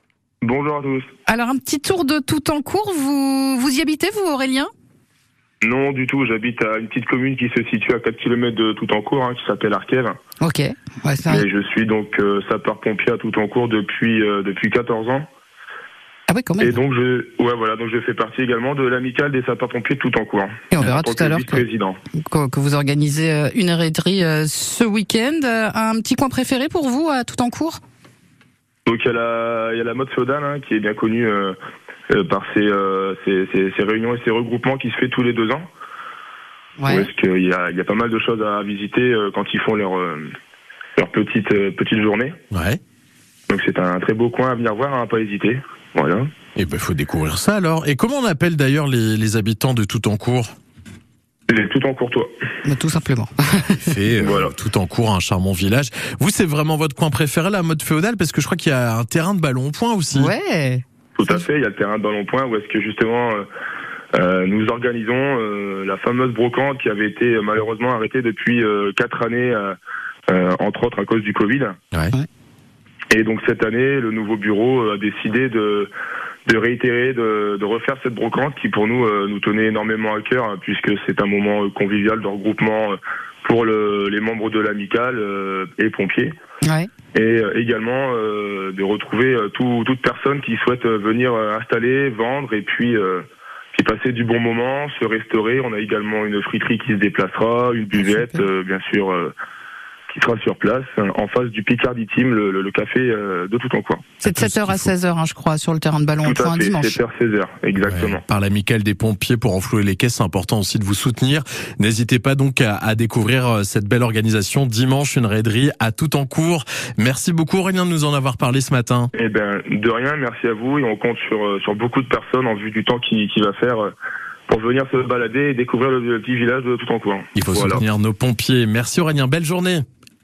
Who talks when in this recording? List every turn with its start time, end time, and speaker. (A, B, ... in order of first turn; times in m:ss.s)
0:00.4-0:01.1 A
0:01.2-0:04.7 B
0:05.6-0:10.2 A
0:10.4-0:11.4 B
0:11.2-0:15.3 A
0:16.3-0:16.7 B
0:16.6-0:22.0 A
0:20.7-0:21.6 B
0:22.2-0:27.8 B
0:28.8-0:31.6 A
0:32.1-0:35.7 A
0:36.8-0:37.1 B
0:36.8-0:40.3 A
0:41.0-0:42.4 A
0:42.5-0:42.8 C
0:43.5-0:46.3 A
0:46.6-0:50.5 C
0:51.5-0:52.3 A
0:52.6-0:53.8 B
0:53.6-1:00.3 C
0:54.2-0:54.5 A
1:00.1-1:00.8 B
1:01.2-1:03.4 A
1:04.1-1:09.8 A
1:10.3-1:11.8 A
1:13.1-1:15.9 A
1:16.4-1:26.3 A
1:26.6-1:26.9 B
1:27.1-1:39.3 A
1:38.0-1:38.4 B
1:40.1-1:44.1 A
1:44.2-1:47.0 B
1:44.2-1:44.9 C
1:46.2-1:48.2 A
1:47.8-1:59.1 C
1:59.1-2:03.9 A
2:04.5-2:07.8 A
2:07.3-2:09.8 C